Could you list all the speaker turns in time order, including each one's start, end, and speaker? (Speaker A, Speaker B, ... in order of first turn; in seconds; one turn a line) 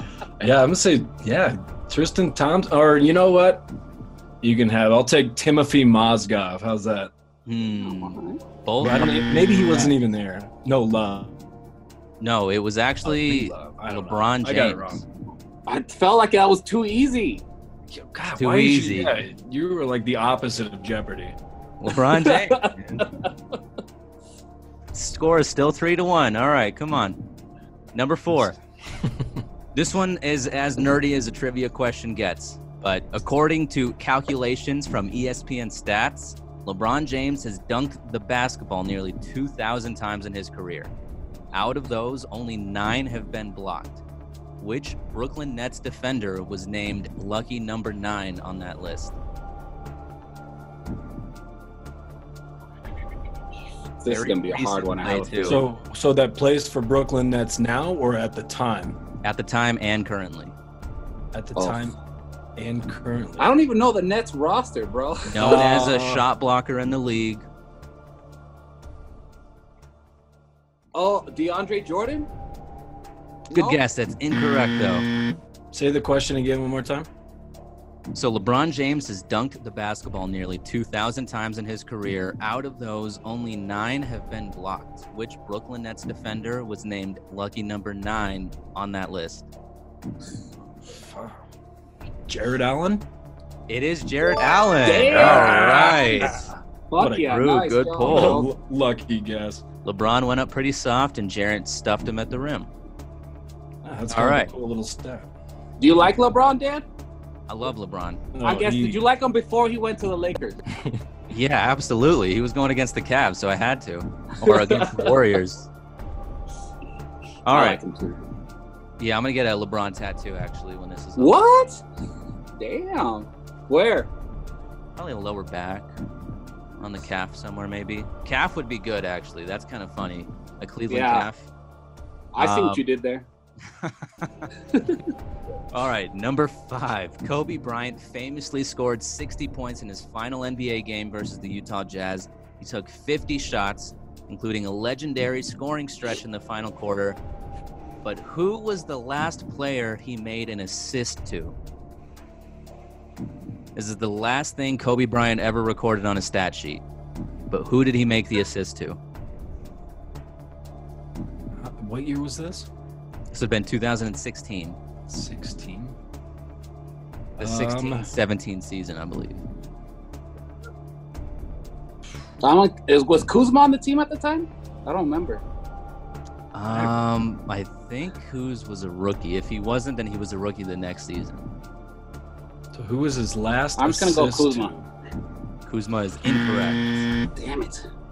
Speaker A: 0.4-3.7
Speaker A: 4.4-7.1
Speaker B: 7.5-9.7
Speaker C: 7.8-8.4
Speaker A: 8.8-11.4
Speaker B: 12.2-15.0
Speaker A: 13.0-15.0
Speaker C: 15.7-17.4
Speaker A: 17.9-21.4
Speaker B: 18.4-19.2
Speaker B: 21.8-22.7
Speaker C: 22.2-23.2
Speaker B: 24.9-27.2
Speaker B: 27.9-28.6
Speaker B: 29.7-40.9
Speaker B: 41.5-44.0
Speaker B: 44.6-49.2
Speaker C: 54.0-55.6
Speaker B: 54.1-55.6
Speaker A: 55.4-59.0
Speaker B: 59.2-60.5
Speaker A: 61.3-62.0
Speaker C: 61.6-61.8
Speaker A: 62.6-63.5
Speaker C: 63.4-65.6
Speaker A: 65.3-66.2
Speaker B: 65.3-67.5
Speaker C: 70.9-72.3
Speaker C: 73.5-73.8
Speaker B: 73.5-75.1
Speaker A: 75.7-77.1
Speaker B: 78.1-89.5
Speaker A: 90.8-91.4
Speaker A: 92.3-93.1
Speaker B: 93.7-96.5
Speaker C: 94.8-96.4
Speaker A: 95.1-97.3
Speaker C: 96.9-98.5
Speaker B: 97.1-98.4
Speaker A: 98.0-99.6
Speaker B: 99.8-102.7
Speaker A: 103.8-105.3
Speaker B: 104.1-104.5
Speaker C: 105.8-106.8
Speaker B: 107.5-108.2
Speaker A: 108.3-109.0
Speaker C: 108.4-110.6
Speaker A: 110.7-111.0
Speaker B: 111.3-115.7
Speaker C: 114.5-115.1
Speaker B: 117.5-117.8
Speaker C: 117.5-118.2
Speaker B: 119.0-121.4
Speaker C: 121.2-121.8
Speaker C: 122.6-124.1
Speaker B: 125.0-125.9
Speaker B: 126.8-131.5
Speaker C: 130.9-131.3
Speaker C: 132.3-133.3
Speaker B: 132.4-132.8
Speaker B: 133.8-134.5
Speaker C: 134.7-135.0
Speaker B: 135.7-147.2
Speaker B: 148.0-151.6
Speaker B: 153.8-156.8
Speaker B: 157.5-159.0
Speaker A: 161.6-162.7
Speaker B: 163.3-164.8
Speaker A: 165.1-166.0
Speaker A: 167.4-168.1
Speaker B: 167.4-169.4
Speaker C: 172.4-175.4
Speaker B: 176.5-181.4
Speaker A: 176.7-176.9
Speaker A: 182.7-184.9
Speaker C: 183.8-184.7
Speaker B: 185.7-187.1
Speaker C: 187.4-187.8